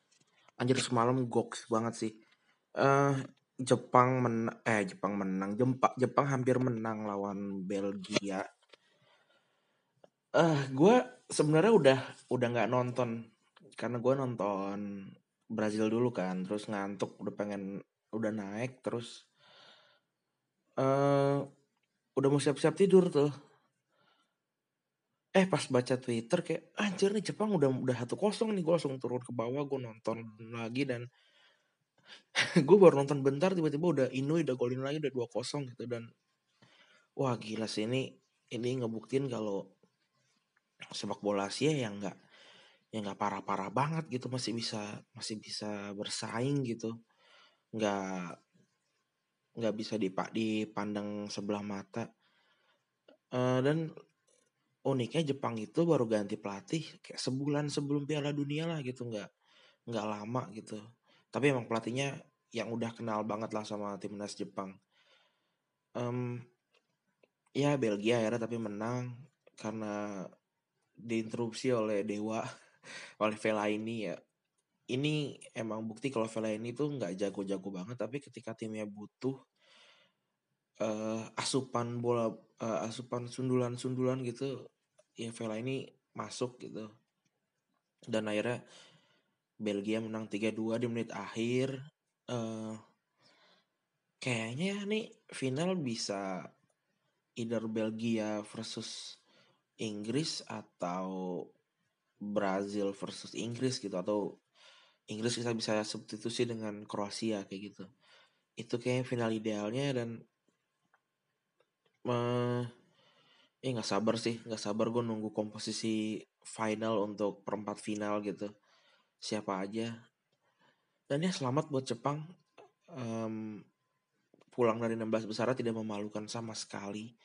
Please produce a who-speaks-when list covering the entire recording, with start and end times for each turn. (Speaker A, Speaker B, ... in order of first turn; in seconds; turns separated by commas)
Speaker A: 0.6-2.1, Speaker A: 2.8-8.4, Speaker A: 10.4-13.1, Speaker A: 13.8-14.8, Speaker A: 15.6-17.6, Speaker A: 18.2-19.1, Speaker A: 20.8-21.4, Speaker A: 22.2-23.3, Speaker A: 25.4-31.1, Speaker A: 32.6-36.0, Speaker A: 37.2-39.6, Speaker A: 41.0-42.1, Speaker A: 42.9-46.9, Speaker A: 47.8-48.3, Speaker A: 49.6-52.1, Speaker A: 53.4-53.8, Speaker A: 54.9-59.3, Speaker A: 59.9-60.8, Speaker A: 61.3-64.7, Speaker A: 66.0-66.4, Speaker A: 67.6-70.0, Speaker A: 71.1-72.5, Speaker A: 73.2-74.2, Speaker A: 74.9-79.4, Speaker A: 80.8-84.5, Speaker A: 85.2-86.9, Speaker A: 88.1-88.6, Speaker A: 89.7-91.7, Speaker A: 92.3-92.8, Speaker A: 94.2-96.2, Speaker A: 97.4-98.9, Speaker A: 99.8-101.2, Speaker A: 102.3-104.2, Speaker A: 105.1-107.9, Speaker A: 108.6-110.1, Speaker A: 112.1-112.7, Speaker A: 113.7-118.5, Speaker A: 119.2-119.9, Speaker A: 121.1-122.2, Speaker A: 123.0-123.5, Speaker A: 124.5-127.1